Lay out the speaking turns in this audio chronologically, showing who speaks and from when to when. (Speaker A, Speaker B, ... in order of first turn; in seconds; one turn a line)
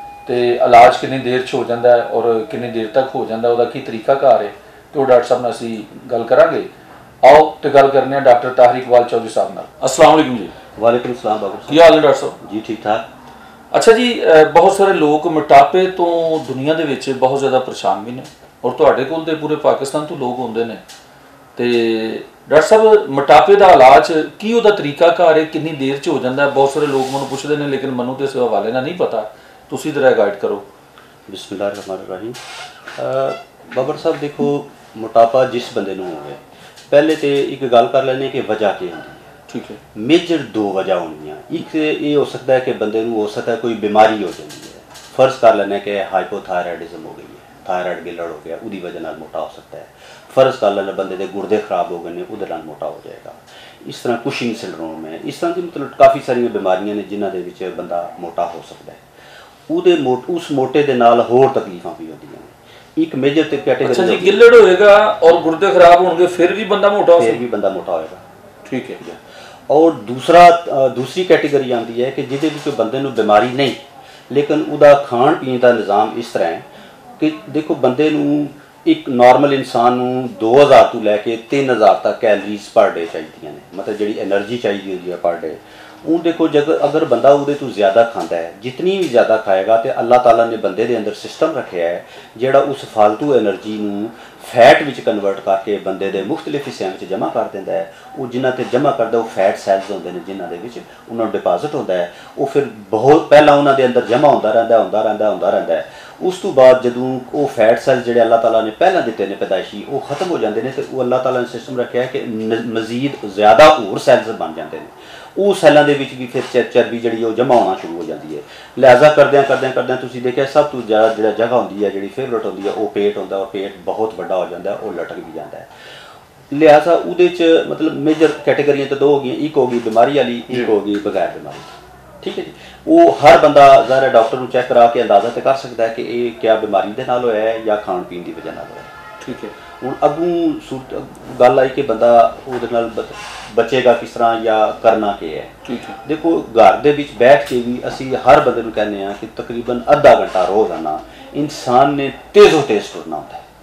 Speaker A: 0.2-6.7
Speaker A: 7.2-10.6
Speaker B: 10.8-13.1
Speaker A: 11.7-12.4
Speaker A: 13.7-20.8
Speaker A: 21.6-30.7
Speaker B: 31.3-32.4
Speaker B: 33.0-39.3
Speaker A: 39.5-39.8
Speaker B: 39.9-59.0
Speaker B: 59.7-64.4
Speaker A: 63.8-67.4
Speaker B: 67.2-68.2
Speaker A: 68.7-69.0
Speaker B: 69.0-76.7
Speaker B: 77.2-125.7
Speaker B: 126.5-139.0
Speaker A: 139.2-139.5
Speaker B: 139.8-153.4
Speaker A: 145.7-146.0